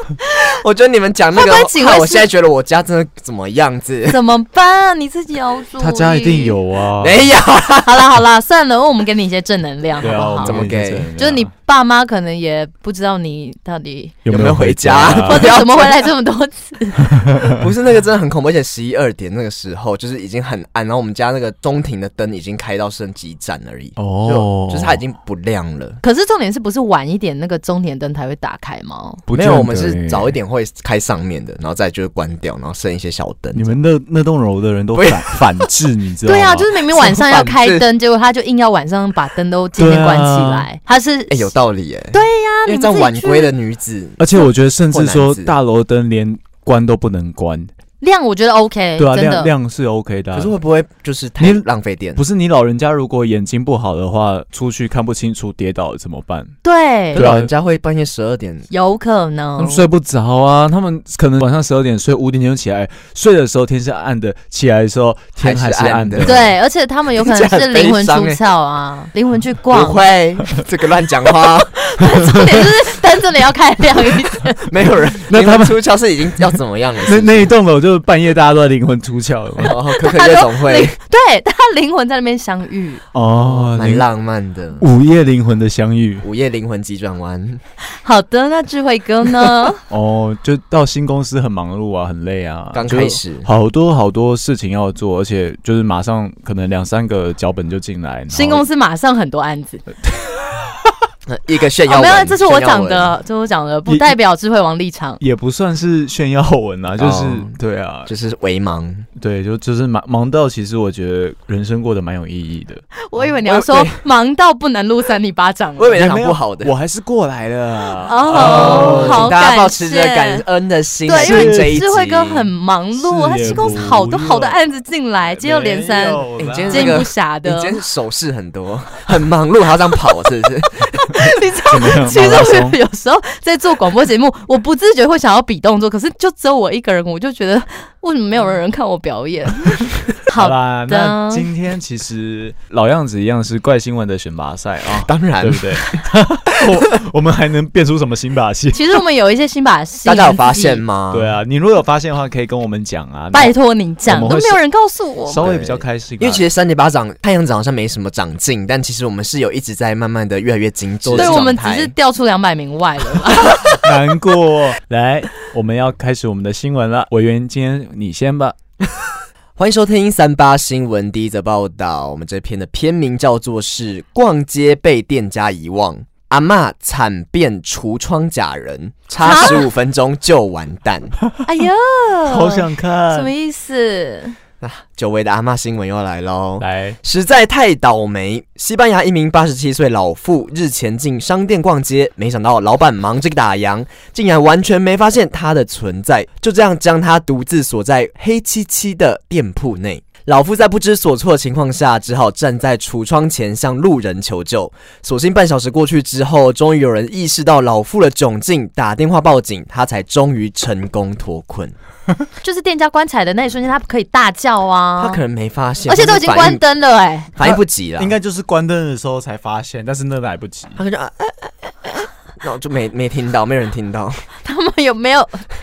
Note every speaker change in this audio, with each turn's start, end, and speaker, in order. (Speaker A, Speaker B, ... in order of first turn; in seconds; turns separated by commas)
Speaker A: 0.2-4.2, Speaker B: 1.3-2.3, Speaker B: 4.1-6.6, Speaker C: 5.8-7.3, Speaker A: 7.0-8.1, Speaker B: 7.8-10.6, Speaker C: 10.0-11.5, Speaker A: 10.4-11.1, Speaker B: 11.2-14.1, Speaker C: 14.2-15.5, Speaker A: 14.3-16.0, Speaker B: 15.2-17.1, Speaker C: 17.2-17.6, Speaker A: 17.4-26.0, Speaker C: 24.0-25.0, Speaker B: 26.0-29.2, Speaker C: 29.3-30.3, Speaker A: 29.3-33.8, Speaker C: 33.5-36.7, Speaker A: 34.9-35.7, Speaker B: 36.2-41.5, Speaker A: 36.9-37.9, Speaker C: 39.8-40.6, Speaker A: 41.3-45.5, Speaker B: 42.1-43.5, Speaker C: 44.2-47.7, Speaker B: 48.0-49.5, Speaker C: 49.0-50.5, Speaker A: 50.3-52.2, Speaker C: 52.1-56.5, Speaker B: 56.6-57.2, Speaker A: 57.1-58.7, Speaker C: 57.1-57.5, Speaker B: 58.7-59.8, Speaker C: 59.6-66.5, Speaker A: 65.4-66.4, Speaker B: 66.2-70.0, Speaker A: 67.2-68.4, Speaker A: 69.7-72.7, Speaker B: 71.8-74.7, Speaker A: 74.6-77.5, Speaker C: 75.3-75.8, Speaker C: 77.0-79.8, Speaker A: 79.6-81.0, Speaker B: 79.9-83.0, Speaker C: 83.1-84.0, Speaker A: 83.3-84.8, Speaker C: 84.8-86.2, Speaker A: 86.2-87.6, Speaker B: 88.0-89.8, Speaker C: 89.9-98.6, Speaker A: 92.7-93.5, Speaker B: 98.3-99.8, Speaker C: 100.0-100.9, Speaker A: 101.2-103.1, Speaker B: 101.8-105.2, Speaker C: 103.9-104.2, Speaker C: 105.2-108.1, Speaker A: 107.0-109.0, Speaker C: 109.2-112.8, Speaker B: 113.0-116.0, Speaker A: 113.4-114.0, Speaker A: 115.8-116.7, Speaker C: 116.0-119.3, Speaker B: 118.0-120.4, Speaker A: 118.3-122.5, Speaker B: 121.0-127.8, Speaker C: 121.2-121.8, Speaker C: 122.9-124.5, Speaker C: 125.3-127.0, Speaker A: 126.4-131.2, Speaker B: 131.0-141.5, Speaker C: 131.7-132.8, Speaker C: 140.3-148.9, Speaker A: 145.0-146.0, Speaker B: 148.7-150.8, Speaker A: 150.0-151.4, Speaker C: 151.1-153.5, Speaker B: 153.3-155.5, Speaker C: 154.1-154.6, Speaker C: 155.3-156.4, Speaker A: 155.4-161.9, Speaker C: 161.0-161.5, Speaker B: 161.2-163.9, Speaker C: 163.6-168.5, Speaker A: 169.6-181.2, Speaker B: 179.2-179.6, Speaker B: 181.4-184.3, Speaker C: 182.3-183.3, Speaker A: 184.6-211.7, Speaker C: 186.6-187.0, Speaker B: 212.4-215.2, Speaker A: 215.0-216.6, Speaker B: 215.9-217.3, Speaker A: 217.3-218.1, Speaker C: 217.4-220.8, Speaker A: 220.8-224.2, Speaker B: 224.4-225.5